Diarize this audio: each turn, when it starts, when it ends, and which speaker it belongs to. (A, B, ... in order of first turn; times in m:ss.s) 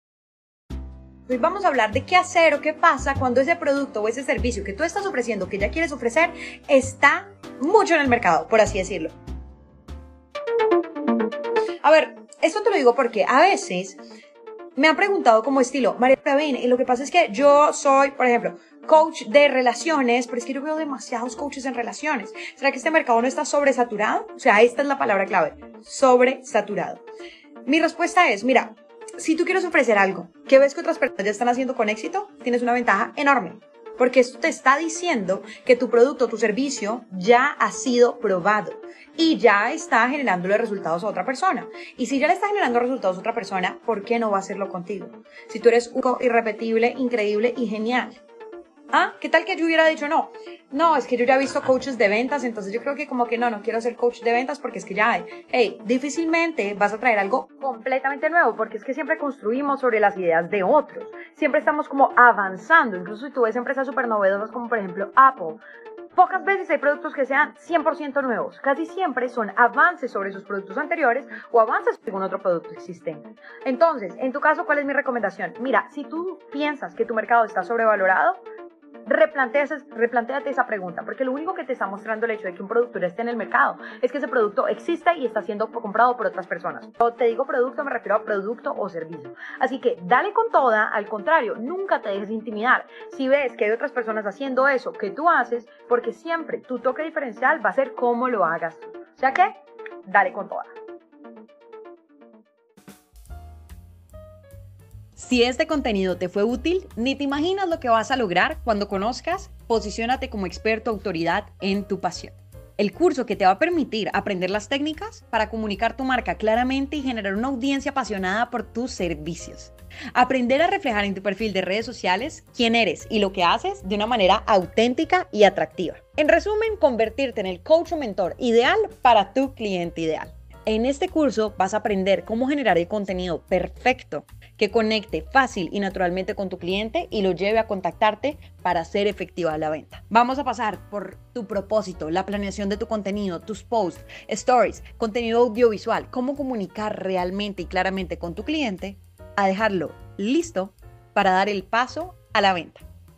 0:01.3-0:09.1 A
0:11.8-0:14.1 A
0:14.8-0:27.0 A
0:27.6-0:48.2 A
0:48.9-1:05.6 A
1:06.1-1:18.4 A
1:19.0-1:39.5 A
1:40.0-1:40.7 A
1:45.2-2:32.8 A